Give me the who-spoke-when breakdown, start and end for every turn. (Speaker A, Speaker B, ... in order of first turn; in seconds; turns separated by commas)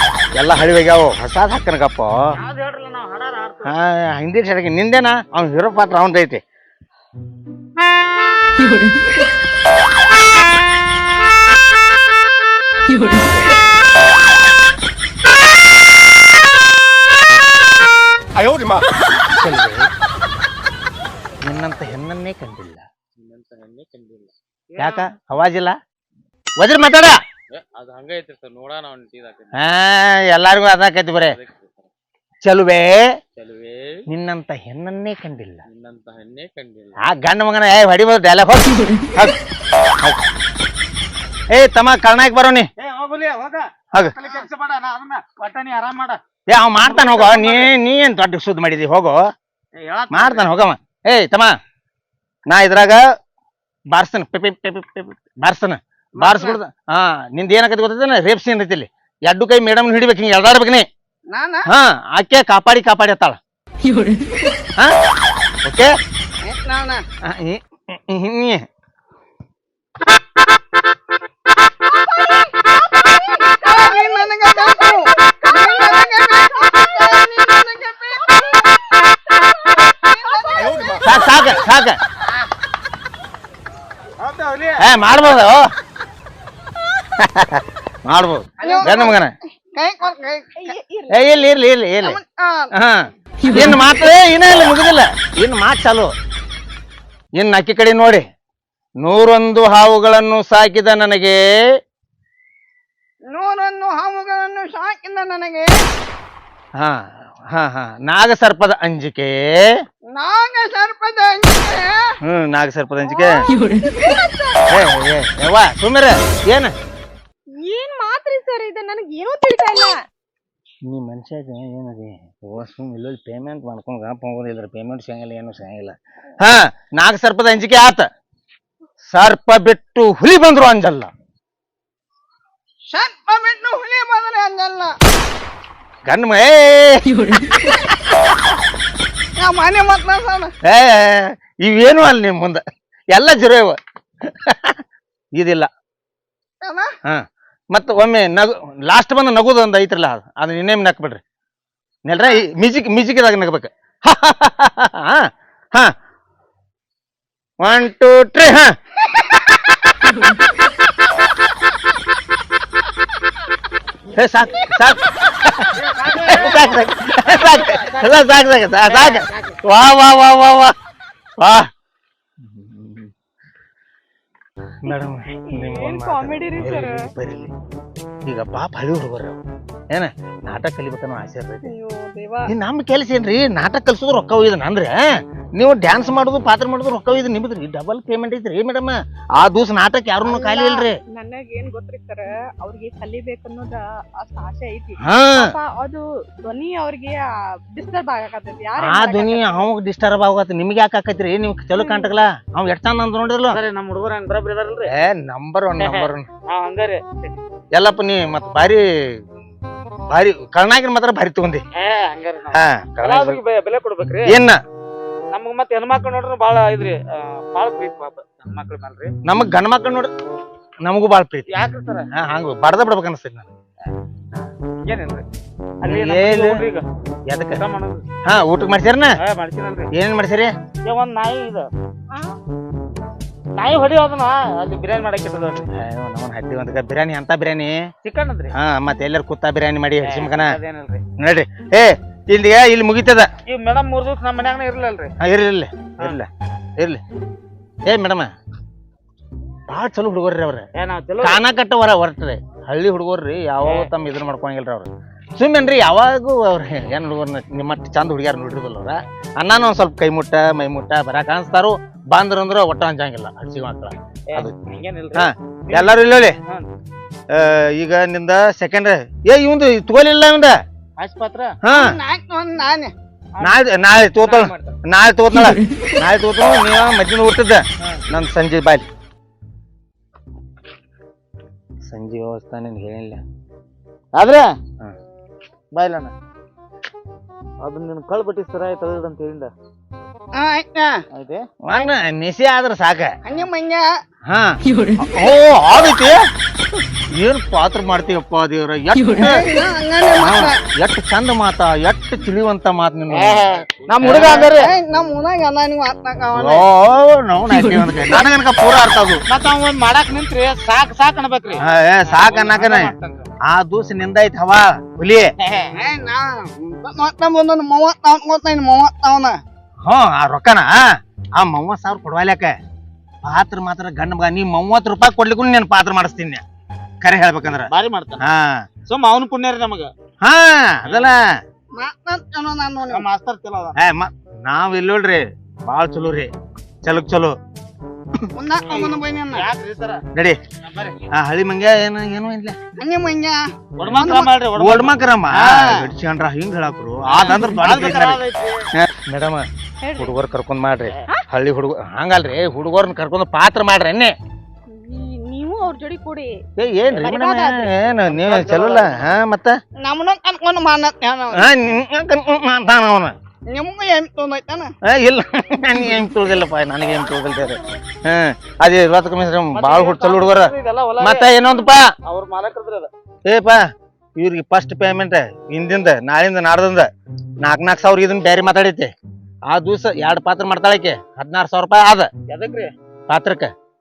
Speaker A: 0.3-2.4, Speaker B: 2.3-3.7, Speaker A: 3.6-6.4, Speaker A: 19.3-19.9, Speaker A: 21.4-22.9, Speaker C: 23.2-24.3, Speaker B: 24.7-25.1, Speaker A: 24.8-25.8, Speaker A: 26.6-27.2, Speaker C: 27.5-29.6, Speaker A: 29.5-31.4, Speaker C: 31.2-31.9, Speaker A: 32.4-33.1, Speaker C: 33.4-34.1, Speaker A: 34.1-35.6, Speaker C: 35.7-37.0, Speaker A: 37.0-39.4, Speaker A: 41.5-42.7, Speaker B: 42.8-46.2, Speaker A: 46.5-49.3, Speaker B: 46.8-47.7, Speaker B: 49.8-50.5, Speaker A: 50.1-51.5, Speaker A: 52.5-53.0, Speaker A: 53.9-60.9, Speaker D: 56.2-56.6, Speaker D: 61.3-61.7, Speaker A: 61.7-63.4, Speaker A: 65.6-65.9, Speaker D: 66.4-67.0, Speaker A: 67.2-68.6, Speaker E: 71.8-77.2, Speaker D: 73.4-78.7, Speaker E: 78.2-81.7, Speaker D: 79.8-81.5, Speaker A: 81.0-82.0, Speaker B: 84.2-84.8, Speaker A: 84.8-85.7, Speaker A: 87.2-89.3, Speaker D: 88.6-89.2, Speaker D: 89.7-90.7, Speaker E: 90.6-91.5, Speaker A: 91.1-92.2, Speaker D: 92.0-92.7, Speaker A: 92.8-96.1, Speaker A: 97.4-98.2, Speaker A: 99.0-101.4, Speaker D: 103.3-105.7, Speaker A: 107.5-109.7, Speaker D: 110.1-112.1, Speaker A: 112.3-113.5, Speaker E: 113.0-114.8, Speaker A: 114.7-116.7, Speaker E: 117.6-120.0, Speaker A: 120.9-128.1, Speaker A: 129.1-131.1, Speaker D: 132.9-134.9, Speaker A: 136.1-138.6, Speaker D: 139.4-140.5, Speaker A: 140.6-144.8, Speaker A: 145.3-145.7, Speaker D: 146.6-146.9, Speaker A: 147.1-151.2, Speaker A: 152.1-155.9, Speaker A: 157.6-158.7, Speaker A: 164.2-170.8, Speaker B: 165.7-168.3, Speaker B: 168.8-169.6, Speaker A: 171.4-171.7, Speaker A: 172.4-173.1, Speaker A: 174.8-177.5, Speaker E: 174.9-177.1, Speaker A: 178.3-179.4, Speaker A: 179.9-181.7, Speaker E: 181.6-182.5, Speaker A: 182.5-191.0, Speaker E: 190.4-199.7, Speaker A: 195.0-195.5, Speaker A: 198.8-203.6, Speaker E: 201.7-202.2, Speaker B: 203.5-204.9, Speaker A: 204.9-206.3, Speaker B: 205.8-207.4, Speaker A: 207.7-209.2, Speaker A: 210.1-211.6, Speaker B: 211.7-214.4, Speaker A: 212.5-213.4, Speaker A: 214.2-214.6, Speaker B: 215.3-219.1, Speaker A: 219.2-220.1, Speaker A: 220.8-221.5, Speaker B: 221.5-222.1, Speaker A: 222.1-223.5, Speaker B: 224.8-225.2, Speaker A: 225.8-226.6, Speaker B: 225.8-226.9, Speaker A: 227.3-227.6, Speaker B: 227.6-228.0, Speaker A: 228.2-229.2, Speaker B: 229.2-229.9, Speaker A: 229.9-230.5, Speaker B: 230.8-231.7, Speaker E: 232.1-232.4, Speaker B: 233.6-235.7, Speaker A: 235.8-237.8, Speaker B: 238.0-238.5, Speaker A: 238.6-240.6, Speaker B: 240.0-241.0, Speaker A: 241.2-243.3, Speaker B: 243.4-245.1, Speaker A: 245.2-247.0, Speaker A: 247.9-248.3, Speaker A: 249.7-250.7, Speaker B: 250.8-251.4, Speaker A: 251.2-264.5, Speaker B: 253.6-253.9, Speaker B: 264.3-266.7, Speaker A: 265.1-266.4, Speaker A: 267.3-270.6, Speaker B: 271.0-271.6, Speaker A: 271.6-272.0, Speaker D: 271.7-272.9, Speaker B: 273.3-273.6, Speaker A: 273.4-278.9, Speaker B: 274.1-274.8, Speaker A: 281.9-283.2, Speaker B: 284.1-284.5, Speaker B: 285.7-286.1, Speaker B: 287.6-289.5, Speaker D: 290.4-291.0, Speaker B: 291.1-291.4, Speaker A: 291.6-293.2, Speaker D: 293.2-293.9, Speaker A: 294.3-296.2, Speaker A: 297.1-299.5, Speaker D: 299.2-300.6, Speaker A: 300.1-303.5, Speaker B: 303.1-304.7, Speaker A: 304.0-304.5, Speaker D: 304.0-306.6, Speaker A: 306.3-309.2, Speaker B: 309.3-313.3, Speaker A: 311.6-312.9, Speaker A: 313.4-315.3, Speaker B: 315.4-315.7, Speaker D: 315.8-319.4, Speaker A: 319.8-322.6, Speaker A: 323.2-326.4, Speaker A: 327.0-327.7, Speaker B: 327.7-328.2, Speaker A: 328.2-328.6, Speaker B: 328.9-329.9, Speaker A: 330.2-331.2, Speaker B: 330.9-331.1, Speaker D: 331.8-333.0, Speaker B: 332.9-333.8, Speaker A: 333.8-336.3, Speaker A: 336.8-337.4, Speaker D: 338.4-339.4, Speaker B: 338.7-340.0, Speaker A: 340.1-340.4, Speaker B: 340.6-341.1, Speaker A: 341.1-342.6, Speaker D: 342.8-344.3, Speaker B: 343.8-345.9, Speaker A: 344.6-348.2, Speaker B: 347.1-348.7, Speaker A: 348.8-354.1, Speaker E: 349.8-350.2, Speaker E: 354.7-356.4, Speaker A: 356.6-359.6, Speaker E: 357.0-357.7, Speaker B: 358.0-359.1, Speaker D: 359.8-361.5, Speaker A: 361.3-363.1, Speaker D: 363.5-364.7, Speaker A: 364.8-371.9, Speaker B: 369.5-371.3, Speaker B: 372.0-372.9, Speaker A: 373.3-373.6, Speaker A: 374.2-376.9, Speaker A: 377.4-378.9, Speaker A: 379.5-382.1, Speaker B: 382.3-382.7, Speaker A: 383.1-383.5